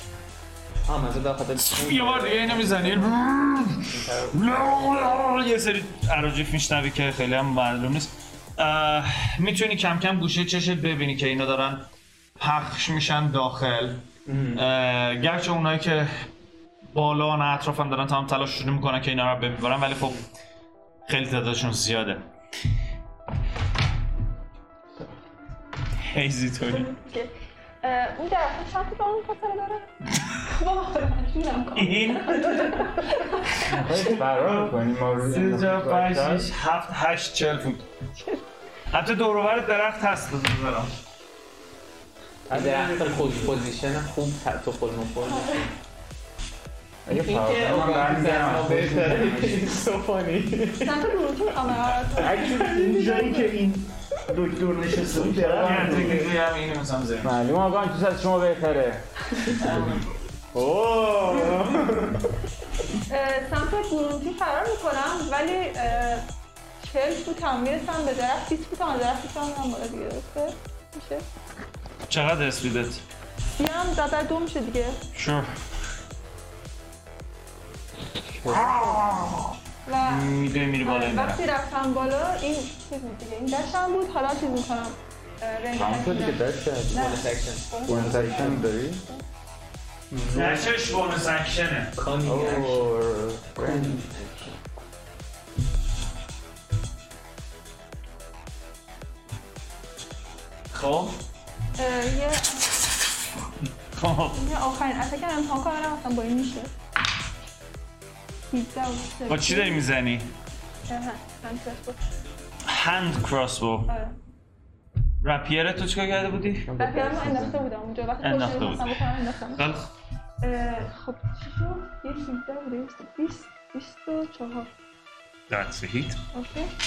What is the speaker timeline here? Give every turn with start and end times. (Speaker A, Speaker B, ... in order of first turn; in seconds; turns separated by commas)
Speaker A: 0.9-3.2, Speaker B: 1.6-11.9, Speaker A: 3.8-4.5, Speaker B: 12.4-14.0, Speaker A: 14.3-14.6, Speaker B: 14.6-16.2, Speaker B: 16.9-20.2, Speaker B: 21.1-22.3, Speaker B: 26.1-26.9, Speaker C: 26.7-27.3, Speaker C: 27.8-33.5, Speaker B: 31.8-33.1, Speaker D: 33.7-36.5, Speaker B: 34.0-37.9, Speaker B: 38.9-40.9, Speaker E: 42.5-43.6, Speaker A: 42.5-45.7, Speaker D: 47.1-49.8, Speaker A: 47.1-51.1, Speaker C: 50.8-52.7, Speaker A: 52.2-53.5, Speaker E: 52.2-56.3, Speaker D: 55.1-56.3, Speaker B: 55.6-57.4, Speaker D: 57.2-60.0, Speaker A: 59.6-59.9, Speaker D: 60.5-61.7, Speaker C: 63.1-66.2, Speaker C: 66.8-71.2, Speaker B: 72.1-73.0, Speaker C: 73.6-75.0, Speaker B: 75.1-75.5, Speaker D: 78.4-79.1, Speaker B: 78.4-81.4, Speaker C: 79.9-89.2, Speaker D: 85.8-87.2, Speaker A: 86.9-88.6, Speaker D: 87.9-89.0, Speaker D: 90.1-90.7, Speaker B: 90.3-91.9, Speaker A: 92.0-92.9, Speaker D: 92.2-94.1, Speaker A: 93.6-94.6, Speaker B: 100.7-101.2, Speaker C: 101.8-102.8, Speaker B: 103.9-104.4, Speaker C: 104.3-106.7, Speaker C: 108.5-109.8, Speaker B: 109.3-110.3, Speaker C: 110.9-112.0, Speaker B: 112.7-113.9, Speaker C: 113.9-114.2, Speaker B: 115.2-116.7, Speaker D: 116.7-117.6, Speaker C: 116.8-119.7, Speaker B: 118.2-119.0, Speaker B: 119.6-119.9, Speaker C: 120.4-124.7, Speaker B: 125.5-126.2, Speaker C: 126.3-126.7